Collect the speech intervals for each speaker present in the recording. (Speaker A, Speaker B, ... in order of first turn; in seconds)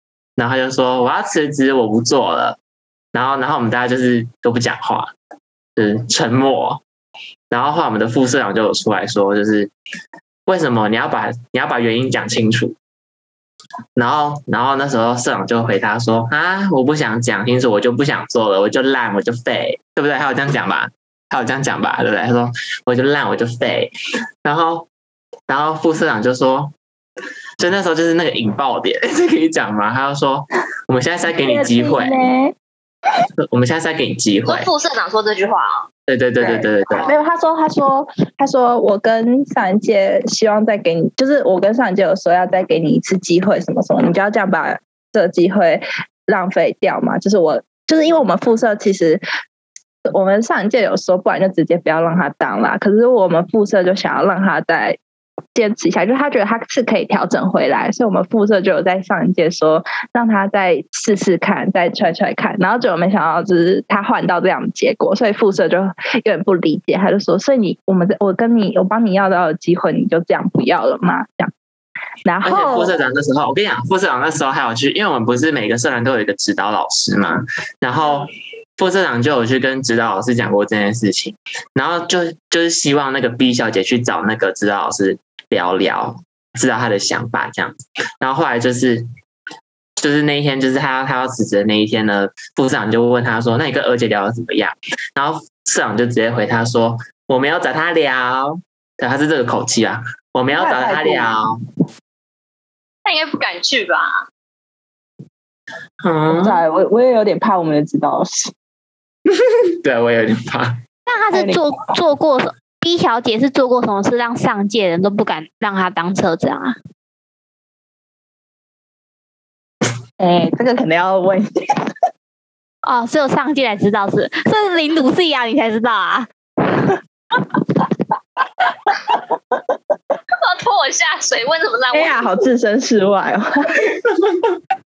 Speaker A: 0.4-2.6, 3.1-5.1, 5.8-6.8, 7.5-9.7, 10.5-12.8, 13.9-23.9, 24.4-24.9, 25.5-26.7, 27.6-32.2, 33.5-34.7, 36.1-37.1, 72.4-89.1, 90.0-101.6, 106.0-106.6, 109.3-110.8, 134.1-134.6
Speaker B: 31.4-32.5, 36.4-49.2, 50.1-55.0, 55.5-71.5, 72.2-72.9, 100.5-101.3, 106.3-108.5, 111.3-111.6, 120.2-121.5, 131.9-133.9
Speaker C: 34.5-35.9, 103.0-104.3, 130.4-132.2
Speaker D: 111.1-116.8, 122.8-126.3